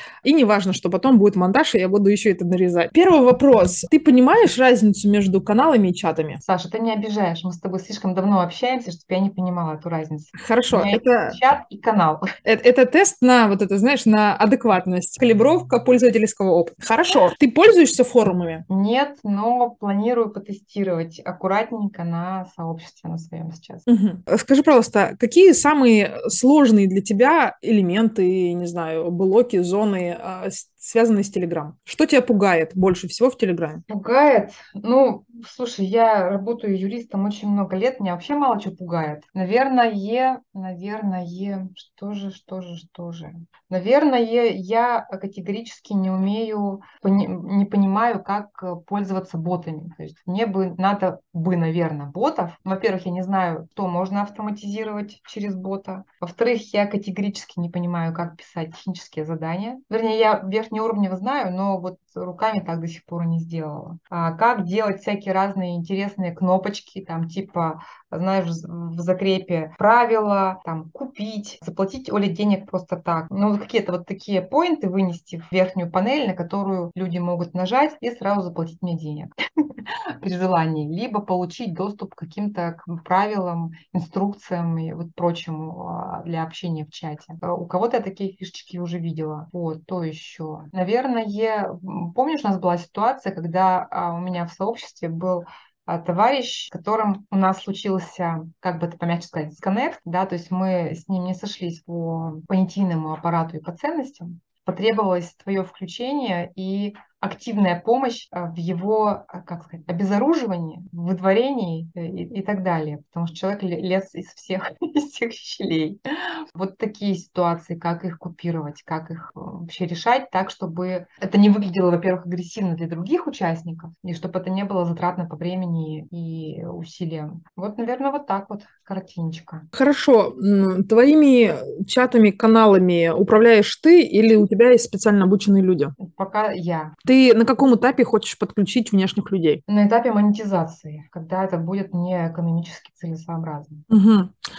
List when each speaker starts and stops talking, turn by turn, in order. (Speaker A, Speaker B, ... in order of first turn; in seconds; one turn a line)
Speaker A: 0.2-6.4
Speaker B: 6.4-12.2
Speaker A: 10.4-11.4
Speaker A: 12.4-18.6
Speaker B: 18.7-23.8
Speaker A: 23.9-33.8
Speaker B: 33.9-129.7
Speaker A: 129.7-135.9
Speaker B: 136.0-136.9
Speaker A: 137.0-139.6
Speaker B: 139.7-143.8
Speaker A: 143.9-144.3